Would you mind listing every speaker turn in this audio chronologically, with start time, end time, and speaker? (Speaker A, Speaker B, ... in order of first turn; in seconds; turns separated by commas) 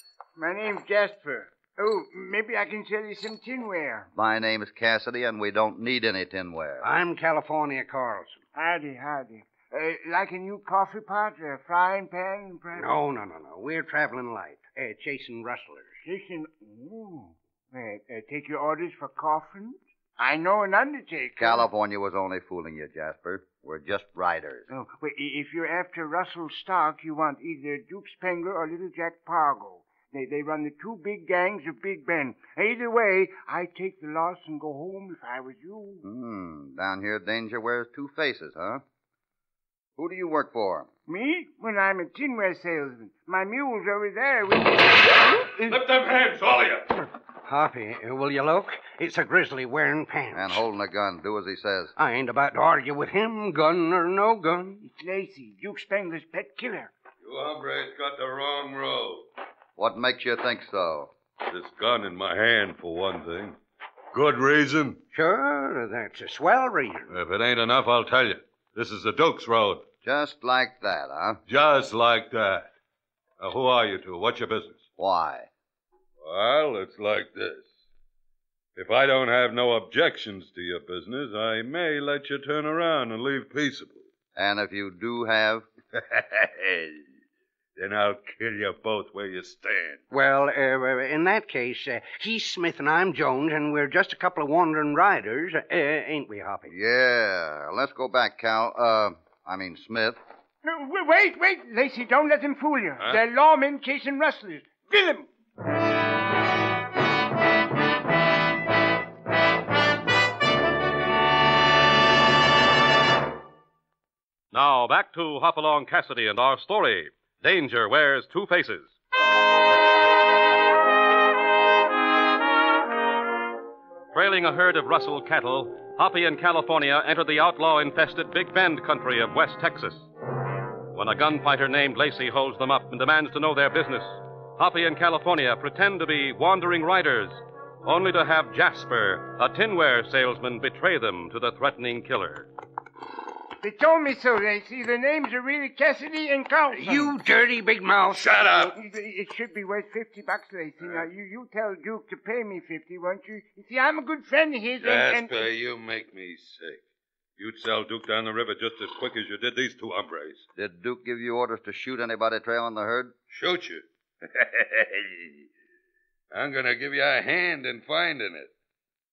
Speaker A: 0.3-4.1, Speaker B: 4.1-6.9, Speaker C: 6.8-8.4, Speaker A: 8.5-13.0, Speaker C: 12.7-15.9, Speaker A: 16.0-21.7, Speaker B: 21.4-24.7, Speaker A: 24.7-36.0, Speaker B: 36.0-38.8, Speaker B: 40.0-40.9, Speaker A: 41.1-45.1, Speaker D: 45.5-47.0, Speaker C: 47.4-50.6, Speaker B: 50.3-51.9, Speaker C: 52.0-54.8, Speaker A: 54.8-56.9, Speaker D: 57.2-59.3, Speaker B: 59.8-61.1, Speaker D: 61.5-63.6, Speaker D: 64.1-65.0, Speaker C: 65.1-67.1, Speaker D: 67.1-69.8, Speaker B: 70.0-71.4, Speaker D: 71.5-72.7, Speaker D: 73.4-74.8, Speaker B: 75.0-75.5, Speaker D: 76.2-77.7, Speaker D: 78.7-84.1, Speaker B: 84.3-85.7, Speaker D: 86.1-86.8, Speaker D: 87.8-90.0, Speaker C: 90.1-96.7, Speaker B: 96.7-100.2, Speaker A: 100.6-105.3, Speaker E: 114.5-118.9, Speaker E: 124.1-130.1, Speaker E: 130.9-142.5, Speaker A: 143.6-147.2, Speaker C: 146.7-148.3, Speaker D: 148.1-148.7, Speaker A: 148.7-155.4, Speaker D: 150.8-151.1, Speaker D: 154.8-156.8, Speaker D: 157.4-160.4, Speaker B: 160.5-163.1, Speaker D: 163.3-165.4, Speaker D: 166.3-168.5